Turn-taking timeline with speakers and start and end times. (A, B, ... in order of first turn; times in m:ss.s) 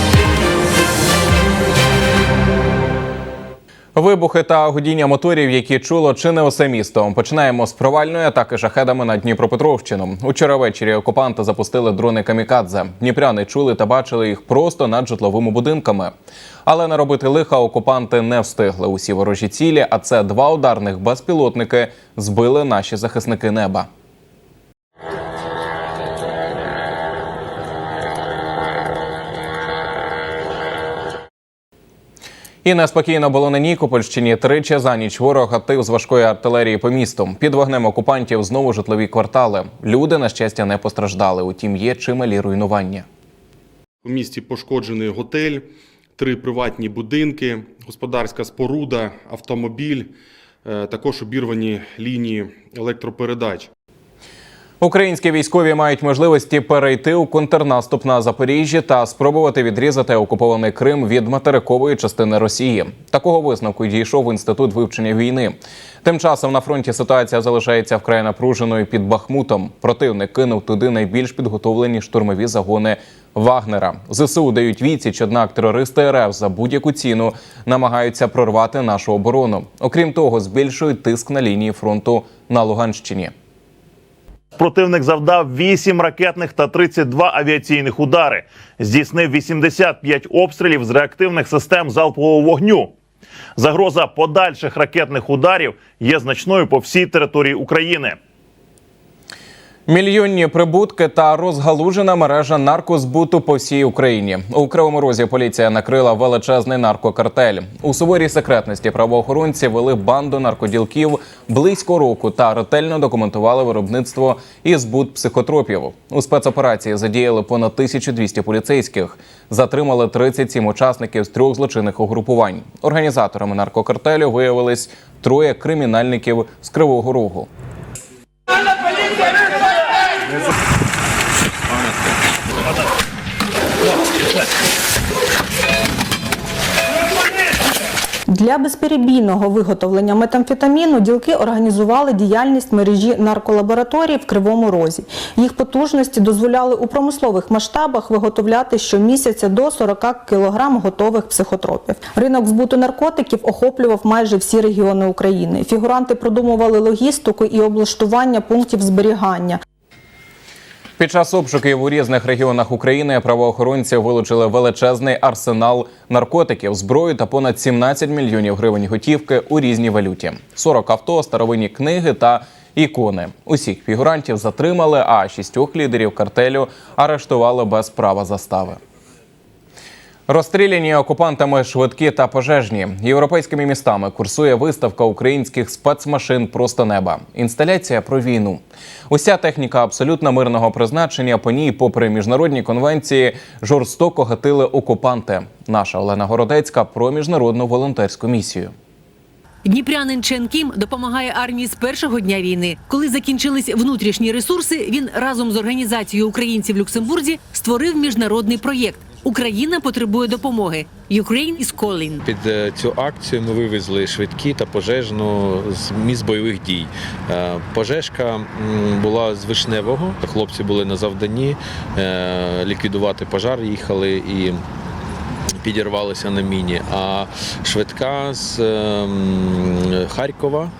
0:04.0-0:16.1 A
0:16.6-0:23.9 A
0:32.6-0:43.0 A
0:44.0-0:50.1 B
0:50.6-0:53.7 B
0:54.8-1:23.3 A
1:24.6-1:32.9 C
1:33.6-1:38.2 C
1:39.9-2:07.5 A
2:18.3-2:39.6 D
2:41.0-2:58.8 A
3:00.3-3:18.7 A
3:19.6-3:32.2 E
3:32.2-3:44.6 F
3:45.6-3:50.7 F